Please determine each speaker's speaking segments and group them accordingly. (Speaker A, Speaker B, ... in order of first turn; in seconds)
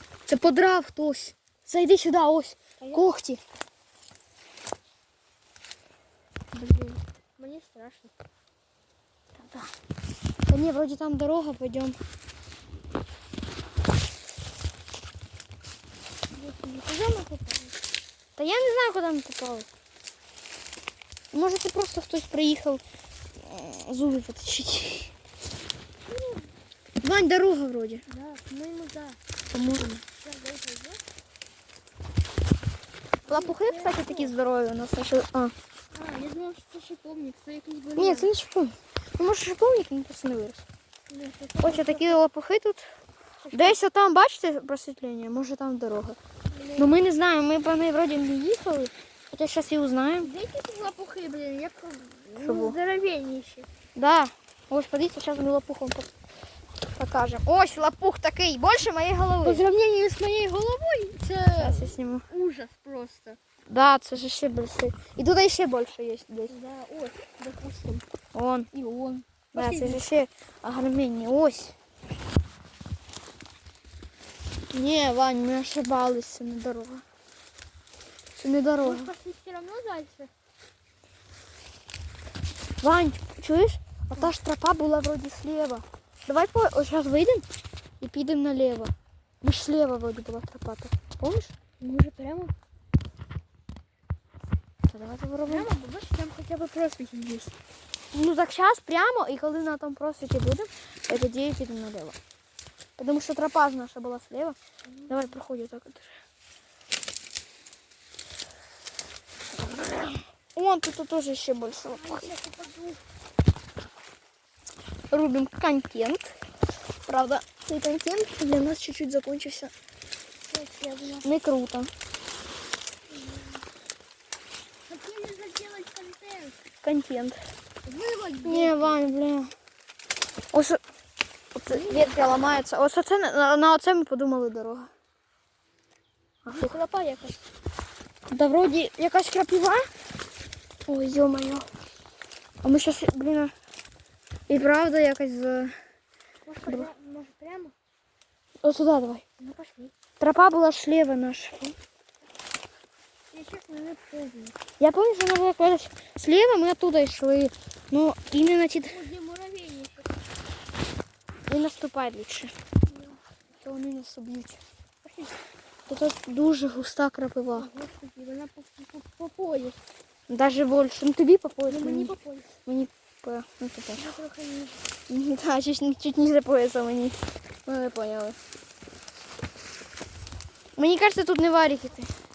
Speaker A: 0.3-3.4, 6.5-7.0, 9.3-9.7, 10.5-12.0, 18.4-19.7, 21.3-22.8, 23.3-25.1, 27.0-28.0, 29.5-30.0, 33.3-35.5, 38.0-40.6, 41.6-42.8, 43.5-46.2, 46.8-50.3, 52.4-52.8, 53.9-56.1, 57.0-59.6, 61.6-62.2, 63.7-66.5, 68.3-68.7, 69.5-71.7, 74.7-77.0, 78.4-79.1, 82.8-87.4, 88.0-91.5, 94.9-95.7, 98.1-102.2, 103.0-104.6, 105.1-106.1, 109.7-112.3, 115.1-116.3, 117.1-119.7, 121.2-121.9, 126.8-127.4, 128.4-129.5, 130.5-130.8, 131.5-134.9, 136.4-136.7, 138.3-139.9, 140.9-141.7, 142.6-143.5, 144.5-145.7, 148.6-149.2, 150.2-151.7, 154.8-159.0, 161.5-162.5, 163.6-164.6, 165.9-167.7, 170.3-172.1, 172.7-174.1, 175.1-178.3, 180.8-182.1
Speaker B: 2.8-3.0, 7.4-8.1, 16.3-17.7, 26.0-26.5, 28.1-29.2, 30.2-31.0, 33.2-34.3, 35.9-38.3, 41.1-42.2, 43.4-43.8, 46.5-46.9, 50.2-53.7, 59.4-63.4, 66.5-68.0, 68.7-70.0, 78.8-80.3, 91.8-92.5, 95.5-97.5, 104.9-105.3, 111.9-113.0, 120.5-121.3, 123.1-123.7, 124.8-126.6, 127.8-129.0, 131.7-132.2, 136.5-137.4, 146.4-147.7, 149.4-149.9, 153.3-154.6, 158.9-160.1, 162.9-163.2, 165.0-165.4, 167.5-169.8, 171.7-172.5, 173.9-174.8